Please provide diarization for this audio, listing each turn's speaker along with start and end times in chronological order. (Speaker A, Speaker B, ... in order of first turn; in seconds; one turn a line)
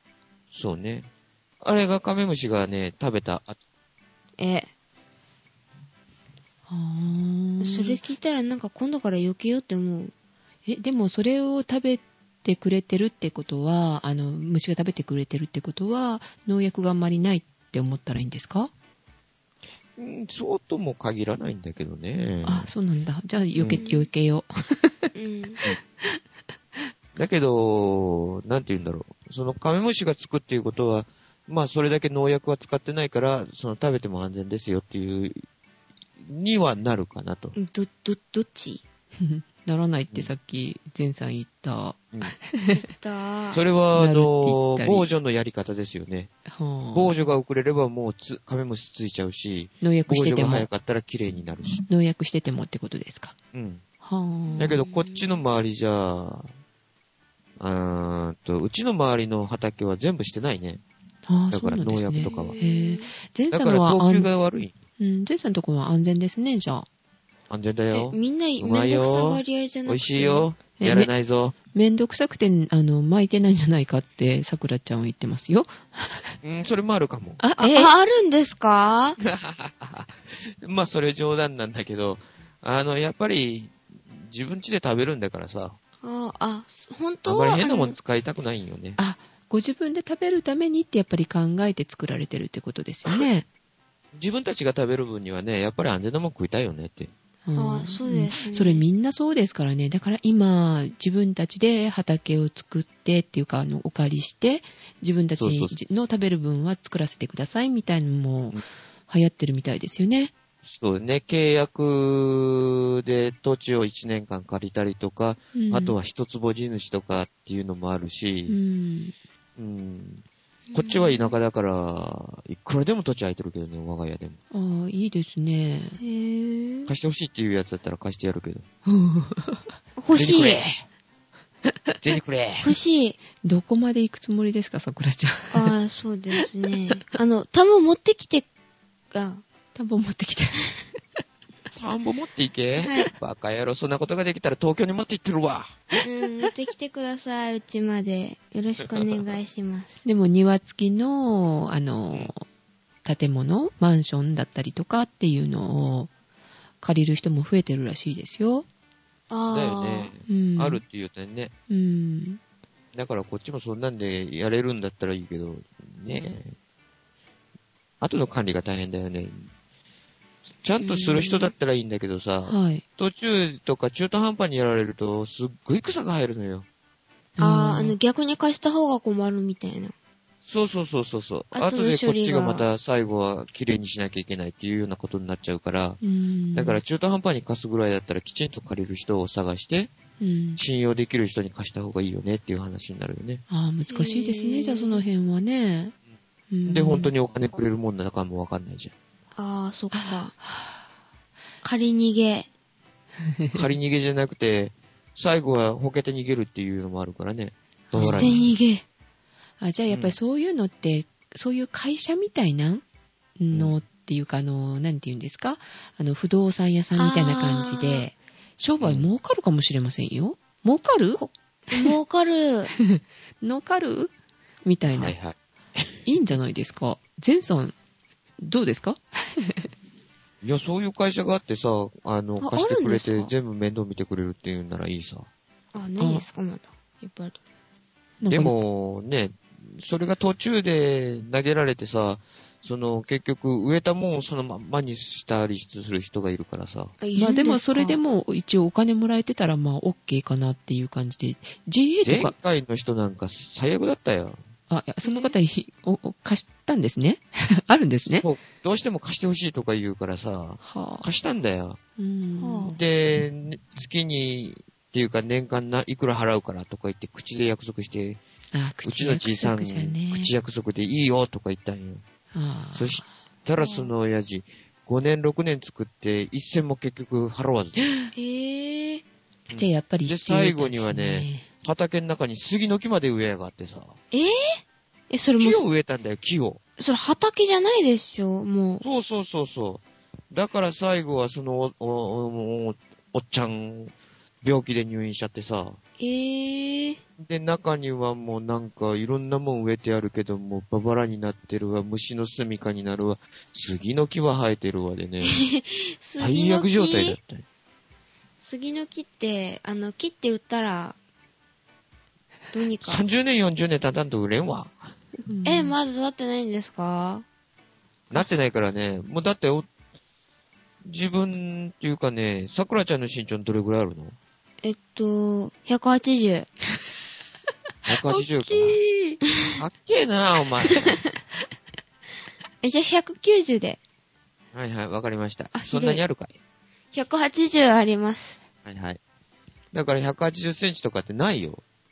Speaker A: 0.5-1.1
Speaker A: 1.6-3.6
Speaker B: 4.4-4.7
Speaker C: 6.7-8.0
Speaker B: 7.6-10.1
Speaker C: 10.7-18.7
Speaker A: 19.9-22.7
Speaker C: 22.4-25.1
Speaker A: 23.6-23.8
Speaker B: 23.7-24.1
Speaker B: 25.1-25.6
Speaker A: 27.1-35.4
Speaker A: 36.2-37.5
Speaker B: 37.5-38.8
Speaker C: 39.2-42.8
Speaker B: 42.7-43.6
Speaker A: 43.5-46.3
Speaker C: 43.9-45.0
Speaker C: 46.5-47.1
Speaker A: 46.9-51.8
Speaker C: 49.8-50.7
Speaker C: 51.9-53.4
Speaker A: 53.5-53.8
Speaker C: 54.0-54.8
Speaker B: 54.5-55.3
Speaker A: 54.6-56.5
Speaker A: 57.6-60.8
Speaker C: 61.3-64.3
Speaker A: 61.5-62.5
Speaker B: 62.2-63.1
Speaker A: 63.5-64.7
Speaker C: 65.0-66.9
Speaker A: 67.5-71.5
Speaker B: 67.9-70.5
Speaker C: 70.8-71.1
Speaker C: 71.7-76.3
Speaker A: 76.4-77.4
Speaker C: 77.4-77.9
Speaker B: 77.6-79.2
Speaker A: 79.2-85.8
Speaker B: 86.0-88.0
Speaker A: 87.2-89.0
Speaker C: 89.0-93.5
Speaker A: 94.1-97.1
Speaker C: 97.4-110.3
Speaker B: 97.5-98.8
Speaker A: 105.4-105.7
Speaker A: 110.6-118.5
Speaker C: 115.5-116.0
Speaker C: 118.5-119.1
Speaker A: 119.6-124.4
Speaker B: 120.7-121.3
Speaker C: 124.5-126.0
Speaker B: 126.0-126.9
Speaker A: 126.9-128.7
Speaker C: 128.8-129.7
Speaker B: 130.0-130.7
Speaker A: 130.1-130.8
Speaker C: 131.7-131.9
Speaker A: 132.0-132.7
Speaker B: 132.6-133.2
Speaker C: 133.4-135.7
Speaker B: 135.5-138.5
Speaker B: 139.1-139.4
Speaker C: 139.7-140.9
Speaker A: 141.7-145.8
Speaker B: 142.8-143.1
Speaker B: 146.0-150.0
Speaker A: 148.9-149.3
Speaker C: 150.0-152.4
Speaker C: 153.0-156.1
Speaker C: 156.8-158.7
Speaker B: 159.3-160.1
Speaker A: 159.5-161.5
Speaker C: 160.3-160.8
Speaker C: 161.7-162.4
Speaker A: 162.9-166.5
Speaker A: 168.0-169.5
Speaker A: 170.6-176.7
Speaker C: 170.8-171.5
Speaker C: 172.5-172.8
Speaker C: 177.4-177.9
Speaker B: 177.4-179.9
Speaker A: 180.4-186.0
Speaker B: 181.5-182.7
Speaker C: 186.0-186.8
Speaker A: 186.5-189.9
Speaker C: 190.2-190.6
Speaker A: 190.6-193.4
Speaker C: 193.5-195.9
Speaker B: 193.9-195.0
Speaker C: 196.5-197.1
Speaker A: 196.7-198.9
Speaker B: 199.3-200.3
Speaker C: 199.9-200.8
Speaker B: 201.6-202.5
Speaker C: 203.3-203.6
Speaker A: 203.5-208.4
Speaker C: 207.9-208.5
Speaker B: 208.0-208.8
Speaker C: 209.6-212.8
Speaker A: 209.9-210.2
Speaker C: 213.4-221.2
Speaker B: 216.9-218.0
Speaker A: 218.8-219.1
Speaker B: 221.2-222.7
Speaker C: 222.8-224.1
Speaker C: 224.6-225.1
Speaker A: 224.9-226.1
Speaker C: 226.1-227.7
Speaker C: 228.4-229.7
Speaker A: 230.4-235.3
Speaker B: 232.4-233.3
Speaker B: 235.7-237.4
Speaker C: 238.2-238.5
Speaker A: 238.3-246.9
Speaker B: 247.0-248.0
Speaker C: 247.2-252.3
Speaker A: 252.0-254.4
Speaker C: 254.7-258.2
Speaker B: 255.0-255.3
Speaker A: 258.0-261.8
Speaker C: 260.6-261.1
Speaker C: 262.0-262.7
Speaker B: 262.4-262.7
Speaker A: 262.6-268.2
Speaker C: 268.5-270.3
Speaker A: 268.8-272.0
Speaker C: 272.3-273.1
Speaker A: 272.7-277.8
Speaker B: 273.6-273.9
Speaker C: 277.8-278.1
Speaker B: 278.1-279.0
Speaker A: 279.5-284.0
Speaker C: 279.5-281.5
Speaker B: 284.1-285.6
Speaker A: 285.4-286.6
Speaker B: 286.8-288.8
Speaker A: 288.8-295.8
Speaker B: 296.0-297.0
Speaker A: 297.2-305.4
Speaker B: 305.2-307.2
Speaker A: 306.2-307.4
Speaker B: 308.4-310.9
Speaker B: 312.5-313.0
Speaker A: 312.8-314.9
Speaker C: 315.2-315.8
Speaker B: 315.4-317.2
Speaker A: 318.1-319.7
Speaker A: 320.8-324.1
Speaker B: 324.6-326.5
Speaker A: 327.9-328.8
Speaker C: 327.9-329.2
Speaker A: 329.5-331.0
Speaker B: 332.6-333.8
Speaker A: 334.5-336.4
Speaker B: 335.5-336.0
Speaker B: 336.9-338.4
Speaker A: 338.6-339.0
Speaker A: 339.7-341.6